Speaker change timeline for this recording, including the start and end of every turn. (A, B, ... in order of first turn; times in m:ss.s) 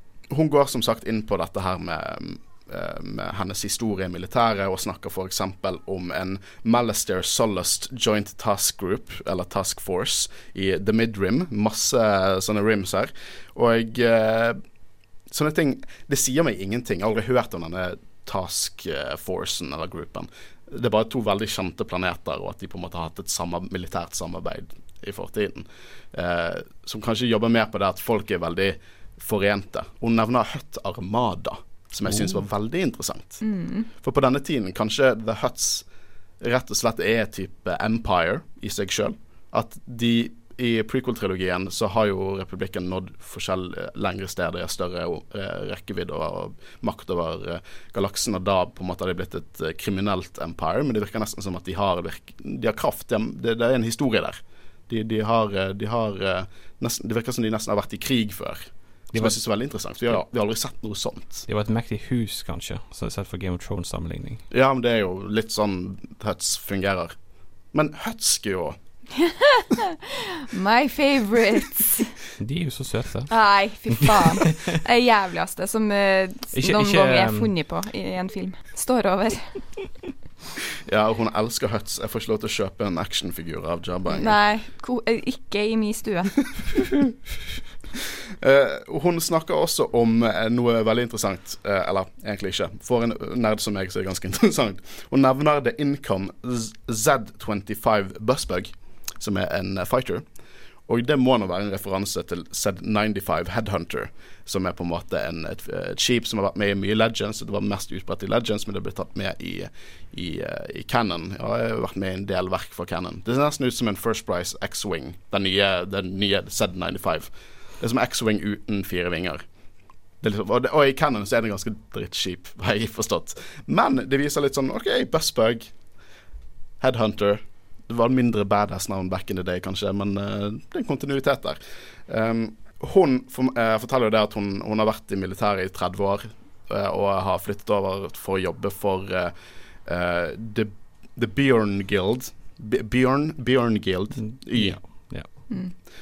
0:00.3-0:14.6 A
0:15.3-0:33.4 A
0:33.4-0:33.9 B
0:34.0-0:35.9 A
0:36.4-1:01.5 A
0:59.1-0:59.4 C
1:01.5-1:04.4 C
1:04.5-1:07.2 A
1:07.7-1:08.8 A
1:09.2-1:12.2 B
1:12.4-1:13.4 C
1:13.3-1:19.7 B
1:13.9-1:14.6 C
1:16.6-1:17.5 C
1:20.9-1:24.4 A
1:24.1-1:26.6 B
1:28.4-1:40.2 A
1:40.9-1:59.4 A
2:00.2-2:05.7 A
2:06.8-2:19.3 A
2:19.8-2:24.8 A
2:24.2-2:25.3 C